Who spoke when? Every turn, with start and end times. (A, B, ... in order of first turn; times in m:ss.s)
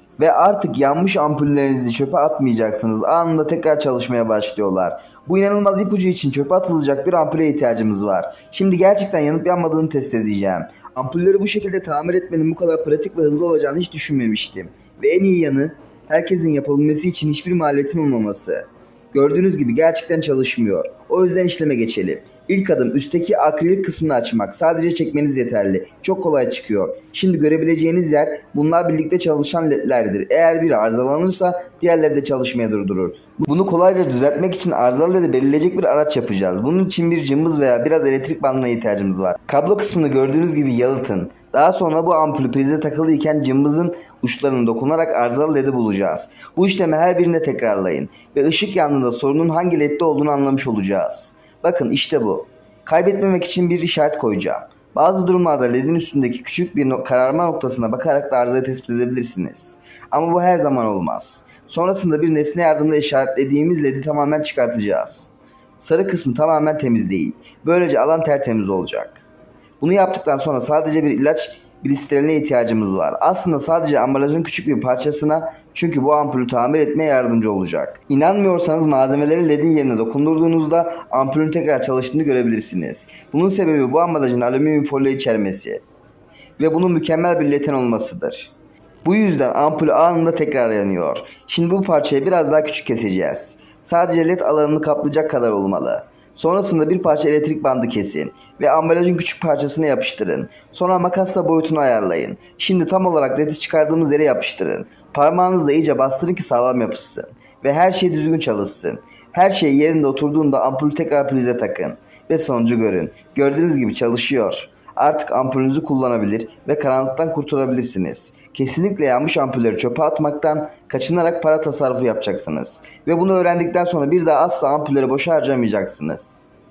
0:00.2-1:09.2 A
1:09.8-1:25.8 A
1:26.6-1:28.5 A
1:29.0-2:06.4 A